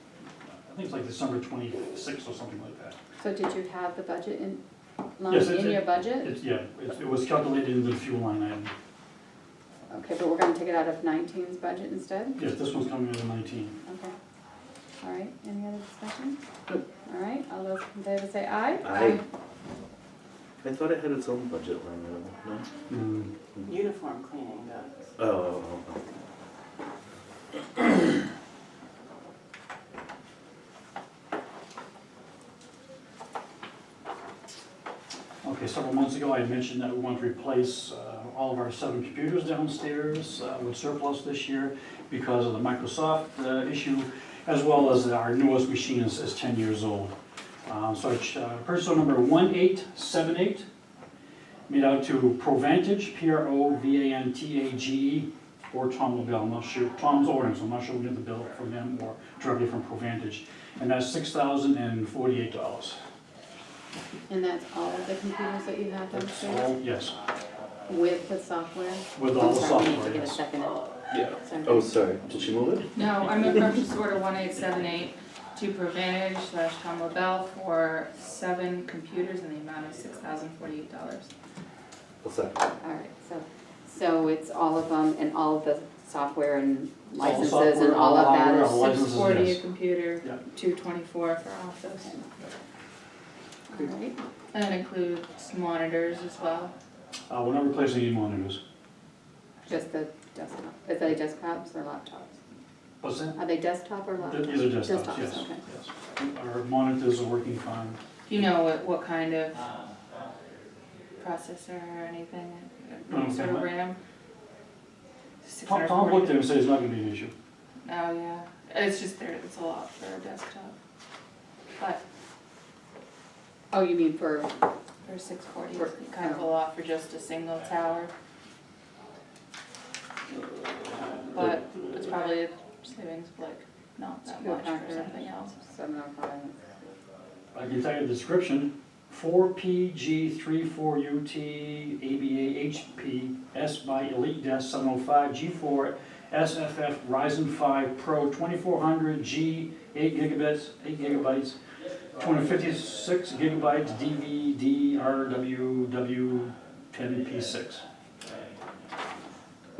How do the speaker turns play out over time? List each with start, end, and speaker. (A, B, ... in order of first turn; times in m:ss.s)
0:00.6-0:03.0 A
0:03.2-0:04.6 B
0:05.2-0:06.3 B
0:05.3-0:08.7 A
0:09.9-0:12.4 B
0:12.4-0:13.8 A
0:13.8-0:14.1 B
0:15.0-0:16.4 B
0:17.0-0:19.2 B
0:18.8-0:19.2 C
0:20.6-0:22.7 C
0:22.9-0:23.3 A
0:23.6-0:24.9 D
0:25.2-0:26.0 C
0:35.4-0:47.1 A
0:47.7-0:50.6 A
0:51.7-1:03.0 A
1:04.3-1:06.7 B
1:06.1-1:07.2 A
1:07.9-1:11.9 B
1:09.1-1:10.4 A
1:11.1-1:13.0 C
1:12.9-1:21.3 D
1:22.2-1:22.6 C
1:22.8-1:28.8 B
1:27.2-1:29.6 A
1:28.8-1:32.3 D
1:33.7-1:34.2 B
1:34.5-1:36.7 D
1:37.3-1:38.6 A
1:39.6-1:42.3 B
1:43.0-1:43.4 A
1:43.4-1:45.6 B
1:44.2-1:48.0 A
1:48.3-1:49.6 D
1:51.2-1:54.0 D
1:53.1-1:53.7 A
1:55.4-1:56.5 D
1:55.6-1:57.3 A
1:57.8-2:00.7 D
2:03.7-2:04.5 B
2:05.0-2:08.1 D
2:05.8-2:06.4 B
2:11.3-2:15.6 D
2:14.3-2:16.6 B
2:17.5-2:31.6 A
2:32.2-2:37.8 A